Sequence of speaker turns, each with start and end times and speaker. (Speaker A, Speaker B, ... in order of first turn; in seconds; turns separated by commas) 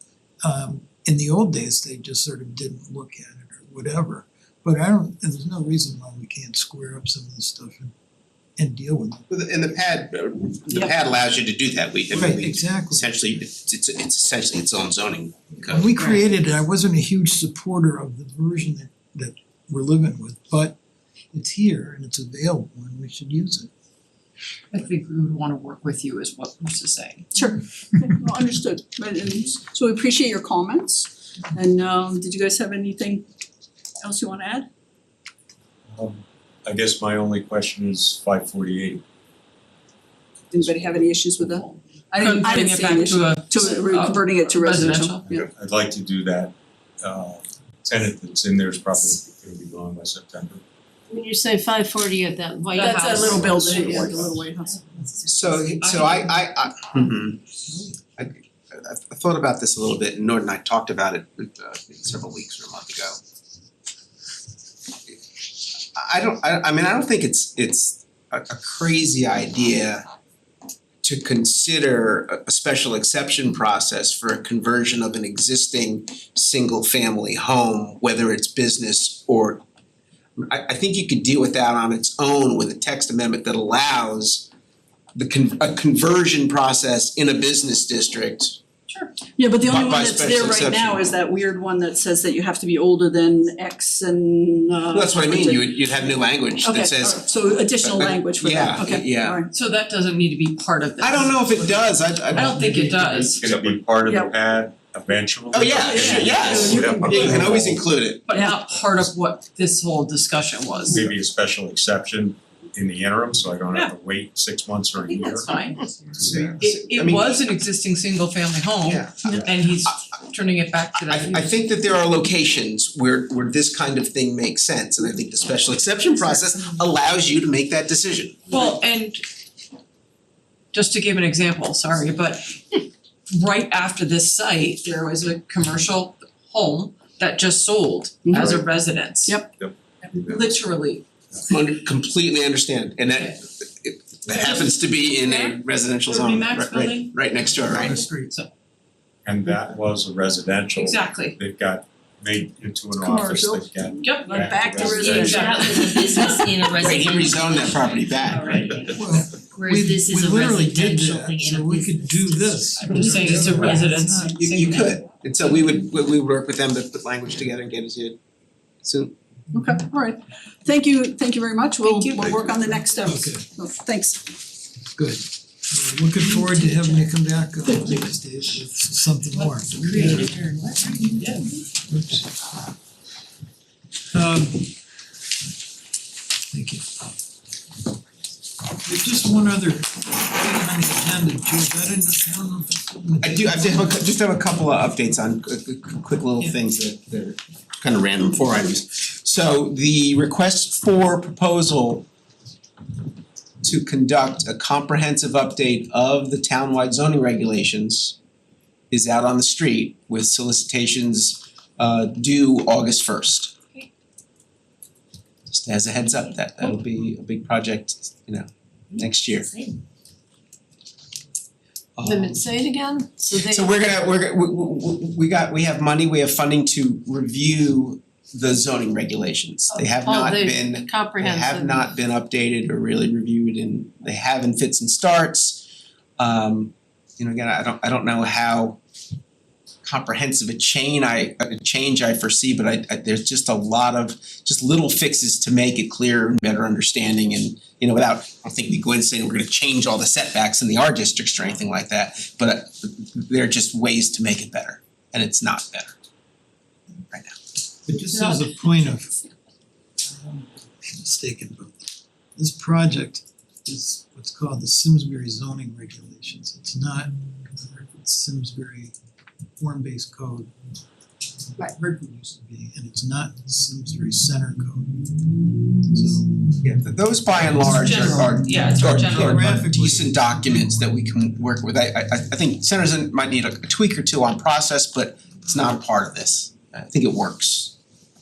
Speaker A: 0.4-7.9, Speaker A: 8.6-9.3, Speaker B: 9.3-16.2, Speaker A: 12.1-13.1, Speaker A: 15.7-20.8, Speaker A: 21.3-23.7, Speaker C: 24.7-27.3, Speaker D: 27.3-33.2, Speaker D: 34.0-34.7, Speaker E: 35.9-39.0, Speaker D: 40.5-45.5, Speaker C: 40.8-45.2, Speaker E: 45.3-50.6, Speaker F: 51.1-54.1, Speaker C: 52.7-54.0, Speaker D: 52.8-55.0, Speaker E: 53.1-54.3, Speaker B: 55.2-57.4, Speaker C: 55.5-56.4, Speaker B: 58.2-63.2, Speaker B: 65.9-70.0, Speaker B: 71.0-79.6, Speaker B: 80.4-84.5, Speaker B: 85.1-88.6, Speaker C: 88.9-89.1, Speaker D: 89.4-99.5, Speaker B: 89.6-91.0, Speaker B: 94.9-97.2, Speaker B: 97.8-99.4, Speaker C: 99.5-103.4, Speaker B: 101.0-102.6, Speaker E: 102.7-107.8, Speaker D: 104.0-104.3, Speaker B: 105.5-108.2, Speaker D: 105.7-107.5, Speaker C: 108.2-111.1, Speaker E: 110.8-116.6, Speaker C: 115.1-115.9, Speaker B: 116.2-117.4, Speaker C: 116.6-121.6, Speaker B: 118.8-119.9, Speaker B: 121.0-128.7, Speaker C: 128.5-129.2, Speaker C: 130.7-139.5, Speaker D: 138.2-138.6, Speaker D: 139.2-139.5, Speaker E: 139.6-140.5, Speaker C: 140.0-141.0, Speaker B: 141.5-148.0, Speaker C: 143.1-143.3, Speaker C: 144.3-148.5, Speaker A: 147.7-148.3, Speaker E: 149.2-155.7, Speaker C: 150.8-151.4, Speaker D: 153.0-156.6, Speaker C: 154.0-156.6, Speaker F: 155.3-156.3, Speaker G: 155.4-158.7, Speaker B: 156.7-158.8, Speaker F: 157.3-159.1, Speaker C: 158.3-158.6, Speaker E: 158.5-158.9, Speaker A: 158.9-164.4, Speaker G: 159.5-162.5, Speaker F: 159.6-160.3, Speaker C: 162.8-165.0, Speaker E: 163.4-163.8, Speaker B: 164.3-168.2, Speaker B: 168.8-169.1, Speaker D: 169.5-174.2, Speaker C: 171.8-172.4, Speaker A: 173.0-173.4, Speaker A: 174.9-182.3, Speaker C: 179.3-181.5, Speaker A: 184.1-184.7, Speaker A: 186.5-186.8, Speaker A: 188.8-194.0, Speaker B: 193.2-202.1, Speaker B: 203.6-208.2, Speaker B: 208.9-213.5, Speaker B: 215.5-219.5, Speaker B: 222.0-222.4, Speaker F: 222.0-223.7, Speaker B: 223.3-235.7, Speaker F: 229.7-231.9, Speaker B: 236.2-238.8, Speaker B: 239.8-256.0, Speaker B: 257.1-257.4, Speaker A: 257.9-259.2, Speaker A: 260.1-268.9, Speaker A: 269.6-270.5, Speaker A: 271.6-275.0, Speaker A: 275.9-276.3, Speaker B: 276.6-287.7, Speaker C: 277.7-279.6, Speaker A: 278.8-281.1